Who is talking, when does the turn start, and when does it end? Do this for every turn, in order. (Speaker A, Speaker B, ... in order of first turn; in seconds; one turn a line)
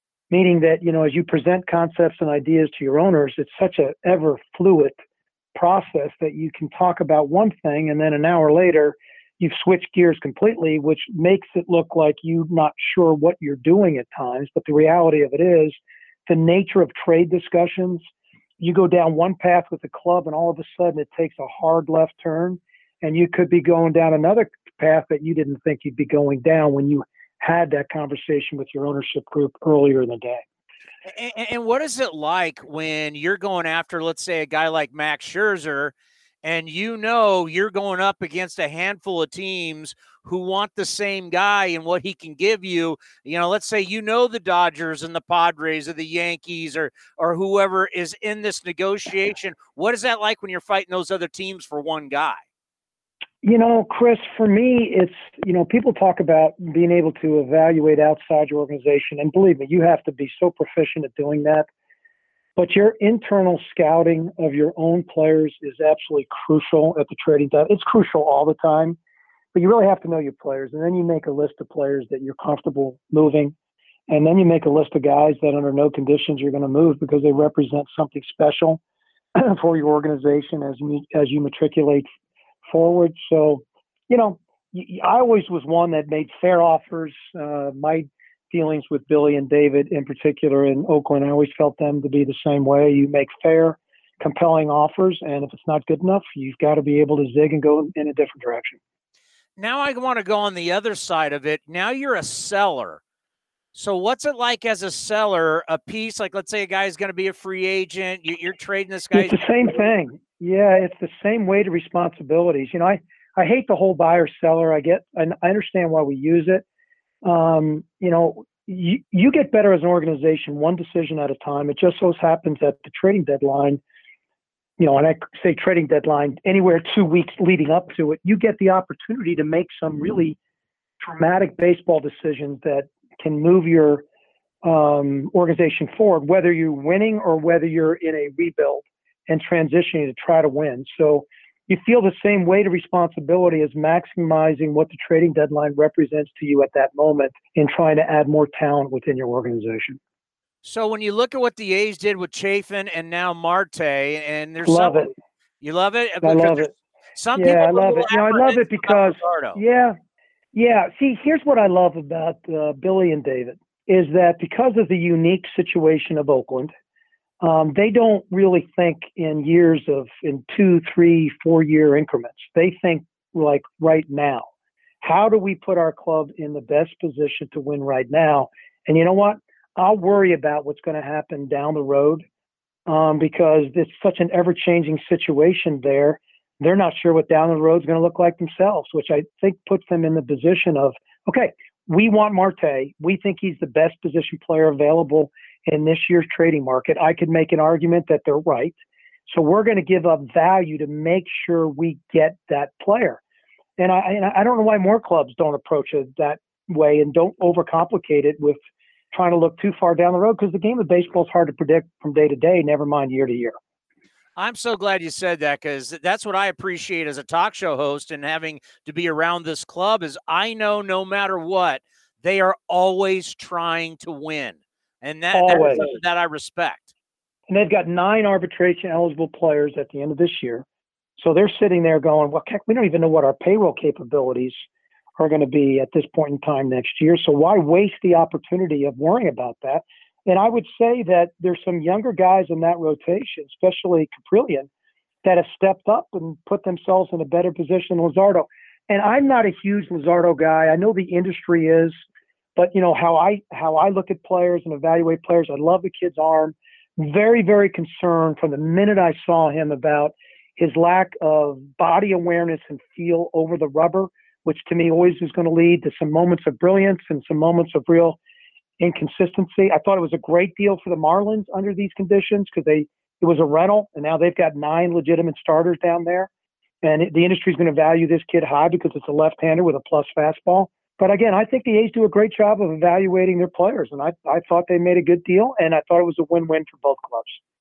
Speaker A: 0.3-5.0
Speaker A: 5.5-18.0
Speaker A: 18.6-30.4
Speaker B: 31.1-52.4
Speaker A: 53.4-61.7
Speaker A: 62.6-69.0
Speaker A: 69.5-73.5
Speaker A: 74.1-78.8
Speaker A: 79.4-82.1
Speaker A: 82.7-98.8
Speaker B: 99.6-103.0
Speaker B: 103.7-109.4
Speaker A: 109.1-116.6
Speaker A: 117.2-123.8
Speaker A: 124.8-130.4
Speaker A: 131.0-134.0
Speaker A: 134.6-150.0
Speaker B: 150.6-155.1
Speaker A: 154.7-155.1
Speaker B: 155.6-159.6
Speaker A: 156.2-156.7
Speaker A: 157.3-160.0
Speaker A: 160.5-166.7
Speaker A: 167.4-174.5
Speaker A: 175.0-182.2
Speaker A: 182.9-198.7
Speaker A: 199.3-203.2
Speaker A: 203.8-208.6
Speaker A: 209.1-213.6
Speaker B: 214.4-226.9
Speaker A: 225.3-225.9
Speaker A: 227.5-230.7
Speaker A: 231.2-234.7
Speaker A: 235.2-244.7
Speaker A: 245.2-252.0
Speaker A: 252.6-268.2
Speaker A: 268.8-276.3
Speaker A: 276.8-287.4